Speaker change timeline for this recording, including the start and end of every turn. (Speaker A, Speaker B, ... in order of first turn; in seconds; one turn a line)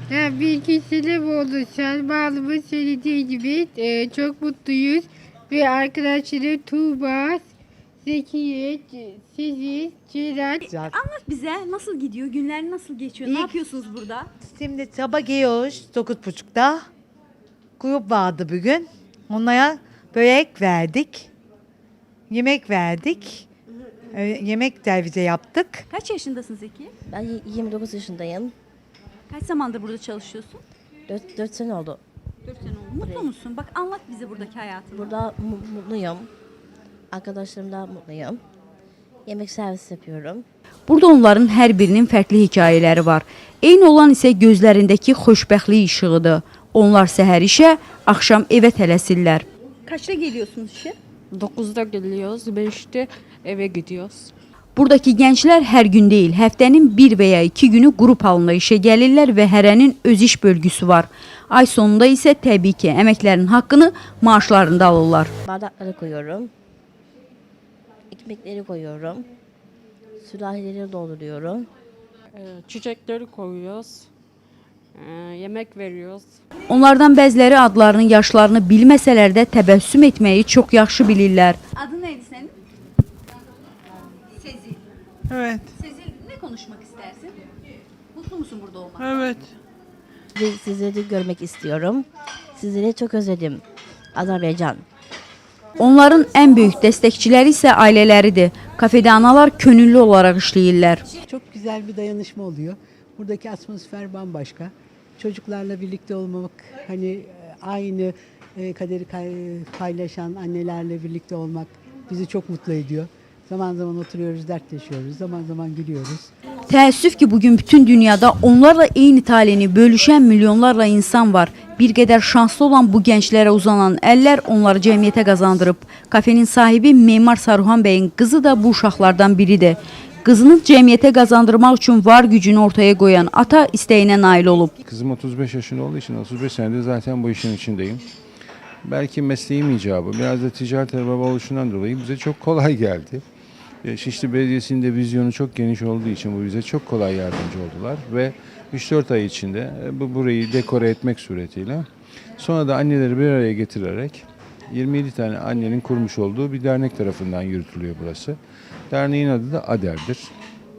Speaker A: 0.1-7.5
Speaker A: 8.0-10.7
Speaker B: 10.7-14.3
Speaker C: 14.4-16.9
Speaker C: 17.8-21.3
Speaker C: 22.3-23.5
Speaker C: 24.1-25.9
Speaker B: 25.9-26.9
Speaker D: 27.1-28.6
Speaker B: 29.3-30.6
Speaker D: 31.1-32.0
Speaker B: 32.4-35.1
Speaker D: 33.0-33.3
Speaker D: 34.9-36.3
Speaker D: 37.1-38.4
Speaker D: 39.3-40.5
Speaker B: 40.9-51.0
Speaker E: 51.3-54.3
Speaker B: 54.8-65.3
Speaker D: 65.5-66.5
Speaker D: 68.1-69.3
Speaker D: 70.2-71.7
Speaker E: 72.3-74.1
Speaker E: 75.0-76.4
Speaker B: 76.7-82.5
Speaker B: 84.4-84.8
Speaker C: 85.3-85.7
Speaker B: 85.8-87.4
Speaker B: 88.1-89.2
Speaker D: 90.3-93.6
Speaker D: 94.2-94.8
Speaker B: 95.8-101.0
Speaker F: 101.3-116.3
Speaker B: 116.7-134.8
Speaker G: 134.8-138.0
Speaker G: 138.8-143.2
Speaker G: 143.8-158.4
Speaker G: 158.9-160.3